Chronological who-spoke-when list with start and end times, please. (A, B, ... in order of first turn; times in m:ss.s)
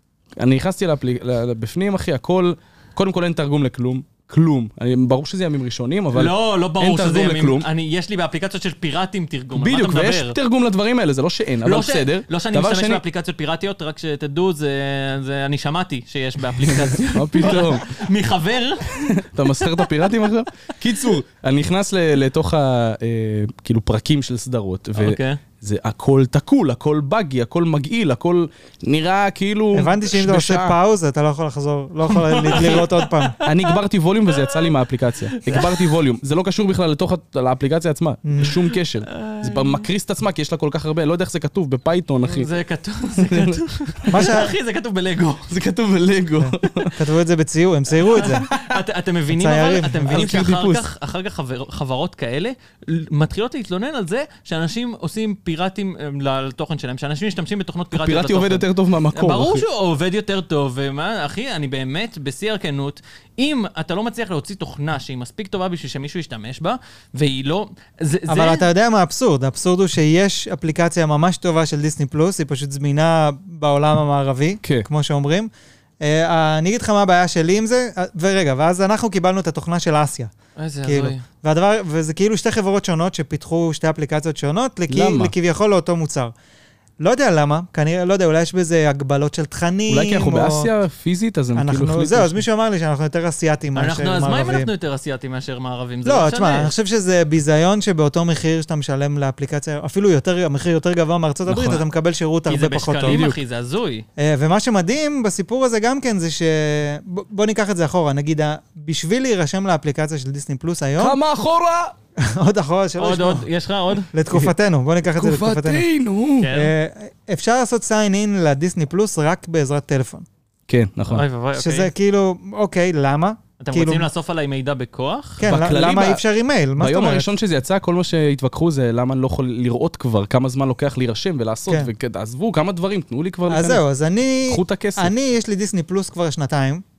0:00.4-0:07.7 A
0:06.1-0:10.4 B
0:09.6-0:13.0 A
0:11.6-0:20.3 B
0:16.6-0:17.9 A
0:18.9-0:30.8 A
0:25.0-0:25.4 B
0:29.7-0:33.4 C
0:32.1-0:33.8 B
0:33.4-0:42.5 A
0:34.4-0:34.7 B
0:35.3-0:36.0 B
0:38.2-0:38.6 C
0:39.1-0:39.8 B
0:42.3-0:45.5 B
0:43.2-0:44.3 A
0:44.1-0:44.5 C
0:45.5-0:47.0 A
0:46.4-0:48.5 C
0:48.1-1:08.7 B
0:49.3-0:50.4 C
0:50.1-0:50.9 A
0:57.9-0:59.6 A
1:08.3-1:15.5 C
1:16.0-1:20.3 C
1:20.6-1:21.2 B
1:20.8-1:26.3 C
1:24.9-1:25.3 A
1:27.0-1:30.7 C
1:29.9-1:32.4 A
1:31.6-1:34.7 C
1:33.8-1:36.7 B
1:36.0-1:43.2 C
1:41.5-1:41.8 A
1:42.5-1:44.0 B
1:43.0-1:43.4 A
1:44.2-1:51.2 C
1:51.0-1:51.9 A
1:52.2-1:53.5 C
1:53.0-1:54.1 B
1:54.1-1:55.8 C
1:55.1-1:56.5 A
1:56.4-1:56.7 B
1:56.5-2:00.2 C
2:00.7-2:01.2 A
2:01.1-2:01.9 B
2:01.6-2:04.1 C
2:03.6-2:05.5 B
2:05.4-2:07.3 C
2:05.4-2:06.2 A
2:06.8-2:13.8 A
2:13.5-2:16.8 C
2:14.5-2:15.1 A